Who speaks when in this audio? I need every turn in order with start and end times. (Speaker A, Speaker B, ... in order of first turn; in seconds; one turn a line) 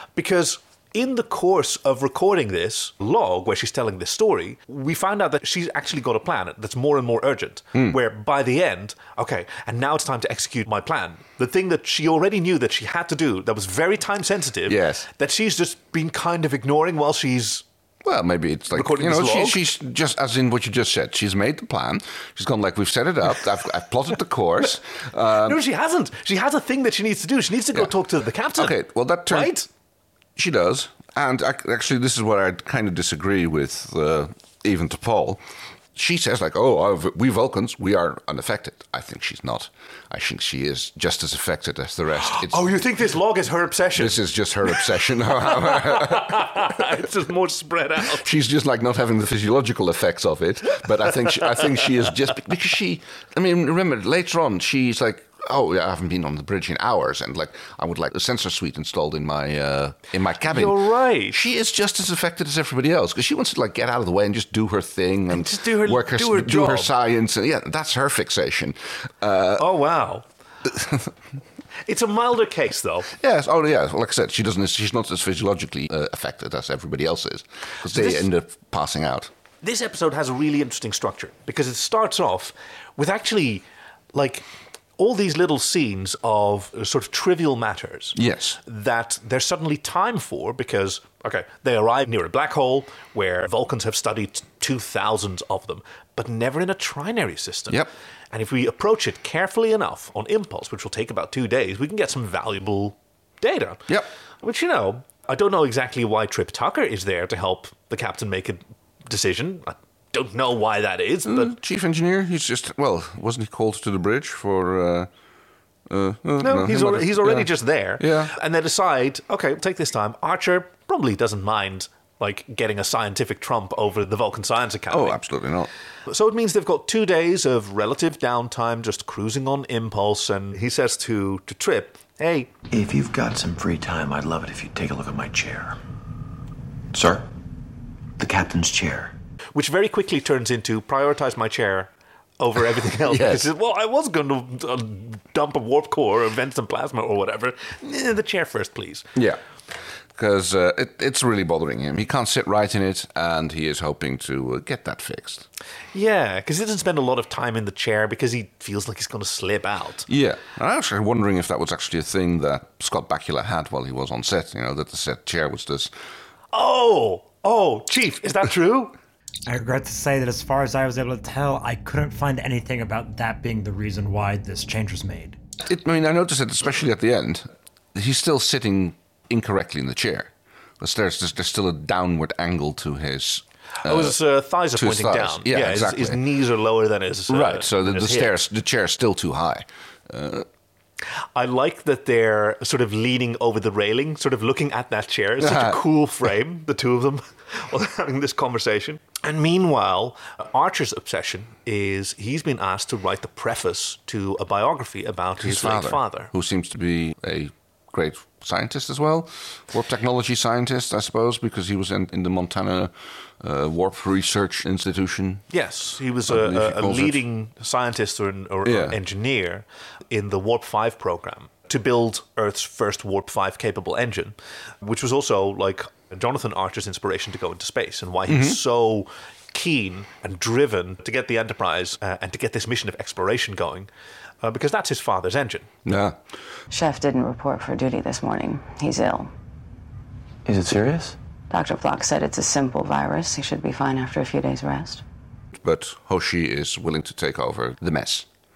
Speaker A: 0.2-17.6
Speaker B: 14.7-15.1
Speaker B: 18.1-25.6
Speaker A: 18.8-19.7
Speaker A: 25.4-29.7
Speaker B: 28.6-29.5
Speaker B: 30.4-35.4
Speaker B: 36.0-42.7
Speaker A: 42.2-48.3
Speaker B: 44.0-46.7
Speaker B: 48.2-69.7
Speaker A: 60.4-61.4
Speaker A: 65.3-66.9
Speaker A: 69.6-70.2
Speaker B: 70.7-71.1
Speaker A: 71.9-73.1
Speaker B: 73.2-79.3
Speaker A: 77.9-78.3
Speaker A: 79.6-83.6
Speaker A: 84.1-84.5
Speaker A: 85.0-103.9
Speaker B: 88.2-88.6
Speaker A: 104.4-111.6
Speaker B: 111.3-115.1
Speaker B: 115.9-117.5
Speaker A: 116.4-125.2
Speaker B: 118.0-118.3
Speaker B: 124.9-125.7
Speaker A: 126.1-132.5
Speaker C: 132.7-135.8
Speaker C: 136.9-137.3
Speaker C: 138.2-139.1
Speaker A: 139.6-149.1
Speaker B: 143.1-143.4
Speaker B: 150.2-155.5
Speaker A: 155.9-160.1
Speaker B: 160.1-165.9
Speaker A: 166.5-168.9
Speaker D: 169.5-175.4
Speaker B: 175.7-184.2
Speaker A: 183.8-188.4
Speaker B: 184.7-186.2
Speaker B: 187.3-190.5
Speaker A: 191.3-206.3
Speaker B: 195.4-195.8
Speaker B: 205.4-215.4
Speaker A: 215.5-233.9
Speaker B: 216.3-217.2
Speaker B: 218.7-219.0
Speaker B: 228.3-228.6
Speaker A: 234.4-235.7
Speaker B: 235.8-236.2
Speaker E: 236.7-239.3
Speaker C: 240.5-241.2
Speaker E: 241.5-245.0
Speaker B: 245.6-248.3